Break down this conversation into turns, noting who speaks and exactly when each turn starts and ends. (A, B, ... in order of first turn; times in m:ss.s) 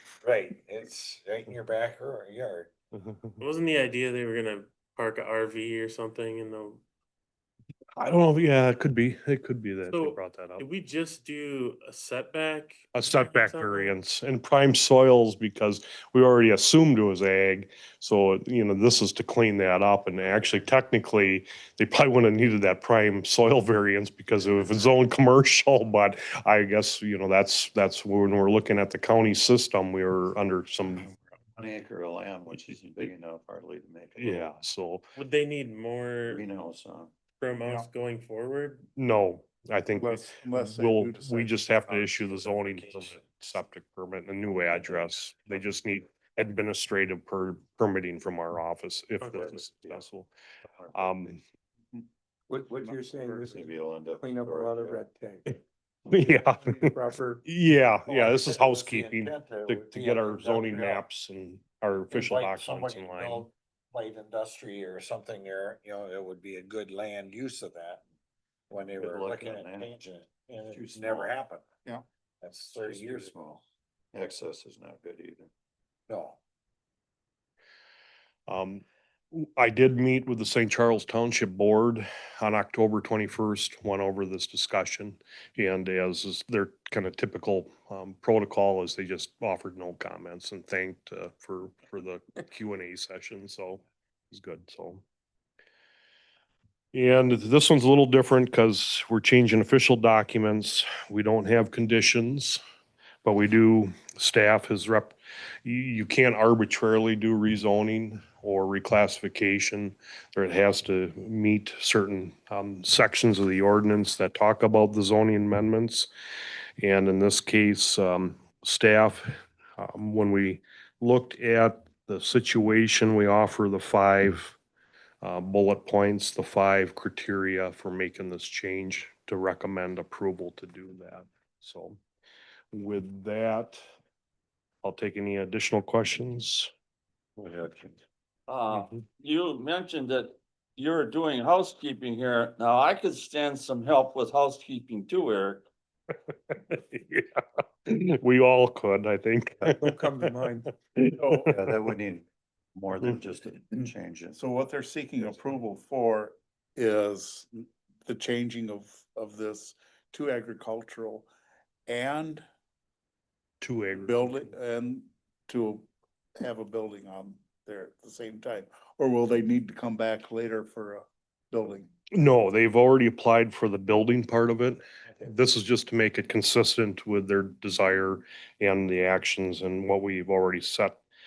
0:00.2-0:02.7 A
0:02.9-0:03.4 B
0:03.4-0:06.8 C
0:08.0-0:10.6 B
0:09.8-0:14.0 C
0:12.9-0:31.1 B
0:31.6-0:34.5 D
0:34.2-0:35.0 B
0:35.2-0:36.4 C
0:36.3-0:37.1 D
0:37.4-0:38.9 C
0:37.6-0:37.9 E
0:39.0-0:50.3 B
0:40.0-0:42.4 E
0:49.2-0:49.5 C
0:49.4-0:50.0 D
0:50.7-0:51.4 D
0:50.9-0:51.4 B
0:52.5-0:55.5 F
0:52.9-0:55.0 D
0:56.1-0:56.9 B
0:56.7-0:57.4 F
0:57.4-1:03.5 B
0:58.1-1:01.0 A
1:02.1-1:08.0 A
1:08.7-1:11.6 A
1:09.0-1:09.9 D
1:10.7-1:11.4 D
1:12.4-1:13.3 A
1:12.8-1:15.5 D
1:16.1-1:16.4 A
1:18.5-1:35.0 B
1:36.9-1:42.6 B
1:43.2-1:56.1 B
1:56.8-1:59.2 B
1:59.8-2:04.6 B
2:05.2-2:12.0 B
2:12.7-2:13.8 B
2:14.8-2:16.7 B
2:17.4-2:18.0 G
2:18.5-2:25.7 G
2:18.7-2:19.0 B
2:26.5-2:31.6 B
2:29.7-2:30.7 F
2:31.0-2:31.6 E
2:31.5-2:34.4 D
2:33.7-2:41.3 E
2:41.9-2:42.4 E
2:43.6-2:44.5 B
2:43.9-2:51.9 E
2:52.1-3:01.0 B